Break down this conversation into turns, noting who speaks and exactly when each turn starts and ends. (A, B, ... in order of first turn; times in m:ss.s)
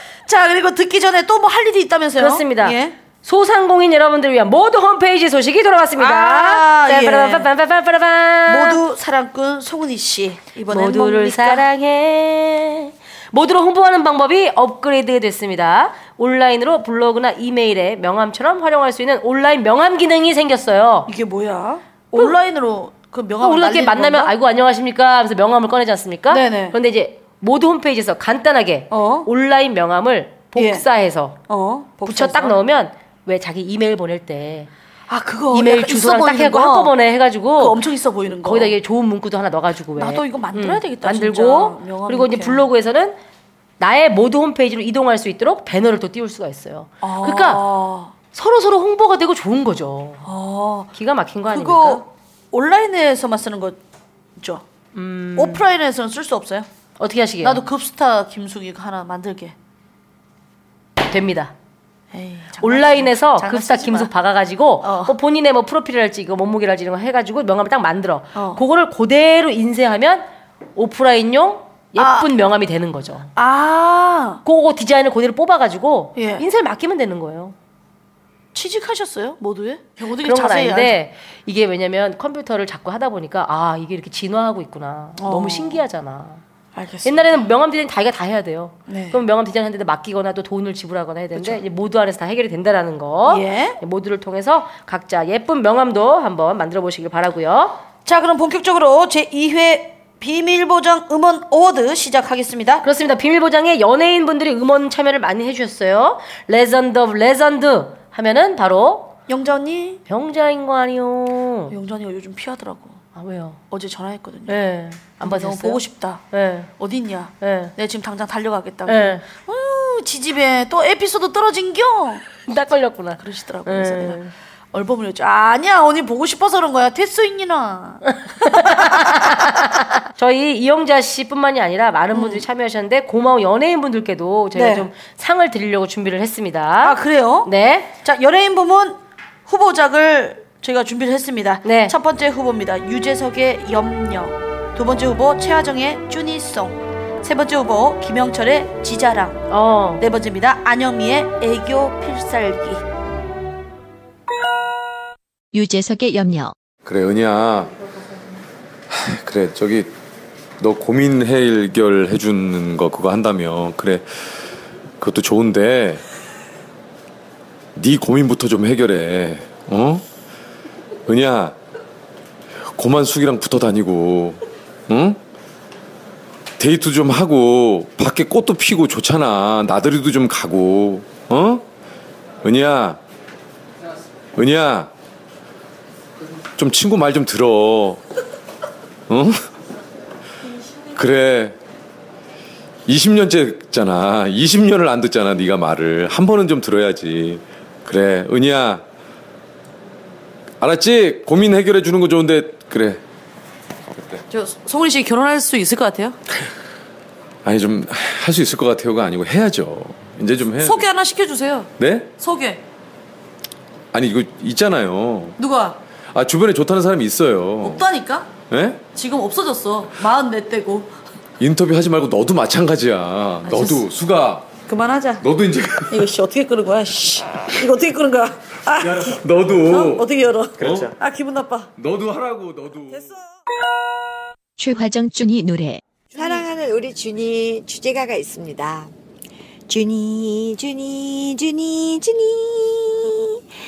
0:00.3-0:02.9 A
0:02.2-0:08.8 B
0:06.0-0:07.5 A
0:08.5-0:11.6 A
0:10.7-0:21.1 B
0:21.1-0:24.3 A
0:23.4-0:31.4 B
0:26.3-0:26.8 A
0:28.9-0:29.3 A
0:30.5-0:30.8 A
0:31.5-0:32.6 A
0:32.0-0:34.7 B
0:35.1-0:36.9 A
0:35.5-0:37.8 B
0:37.6-0:38.8 A
0:38.4-0:43.2 B
0:40.0-0:42.6 A
0:43.8-0:47.6 B
0:47.0-0:48.1 A
0:48.3-0:50.2 B
0:50.2-0:50.9 A
0:50.9-0:52.0 B
0:51.5-0:53.8 A
0:54.4-0:54.6 A
0:54.9-0:55.6 B
0:55.3-0:56.7 A
0:57.0-0:57.6 B
0:57.4-0:59.5 A
1:01.1-1:01.5 B
1:02.1-1:04.1 A
1:02.6-1:13.3 B
1:04.8-1:05.1 A
1:08.3-1:08.6 A
1:12.0-1:12.3 A
1:13.4-1:14.4 A
1:14.4-1:17.5 B
1:16.2-1:16.4 A
1:18.5-1:21.0 A
1:20.2-1:26.4 B
1:25.2-1:25.8 A
1:26.7-1:27.2 A
1:27.0-1:37.8 B
1:28.9-1:29.2 A
1:31.3-1:31.6 A
1:33.2-1:33.8 A
1:38.0-1:42.8 A
1:42.8-1:49.1 B
1:49.3-1:50.0 A
1:50.1-1:51.7 B
1:51.7-1:53.0 A
1:53.1-1:53.6 B
1:53.7-1:54.6 A
1:54.5-1:56.7 B
1:55.2-1:56.2 A
1:56.8-2:02.3 A
1:57.4-1:57.7 B
1:58.9-1:59.2 B
2:02.5-2:04.3 B
2:03.2-2:04.2 A
2:04.7-2:08.0 A
2:08.2-2:17.9 B
2:08.5-2:09.4 A
2:12.1-2:12.4 A
2:14.5-2:14.9 A
2:16.8-2:17.5 A
2:18.0-2:29.4 A
2:21.6-2:21.9 B
2:29.5-2:30.0 B
2:30.0-2:32.8 A
2:35.5-2:36.5 C
2:36.8-2:37.7 D
2:38.9-2:39.9 D
2:40.6-2:44.1 D
2:45.0-2:46.0 D
2:47.8-2:50.0 D
2:51.1-2:51.6 D
2:52.7-2:55.2 D
2:56.6-3:01.6 D
3:02.4-3:03.0 D
3:04.4-3:04.9 D
3:06.6-3:08.0 D
3:09.1-3:09.4 D
3:10.9-3:11.6 D
3:12.8-3:18.8 D
3:20.6-3:23.0 D
3:24.3-3:26.2 A
3:27.4-3:30.9 D
3:30.6-3:32.6 A
3:31.8-3:32.1 D
3:33.9-3:35.4 D
3:35.4-3:35.8 A
3:36.1-3:37.8 D
3:37.6-3:38.3 A
3:38.5-3:38.8 D
3:38.9-3:40.9 A
3:41.4-3:44.5 D
3:43.4-3:43.8 A
3:44.7-3:45.2 A
3:45.2-3:46.1 D
3:45.9-3:51.7 A
3:48.8-3:50.1 D
3:50.6-3:50.9 D
3:51.8-3:53.1 D
3:54.6-3:55.8 C
3:56.1-3:58.9 E
3:59.7-4:03.4 E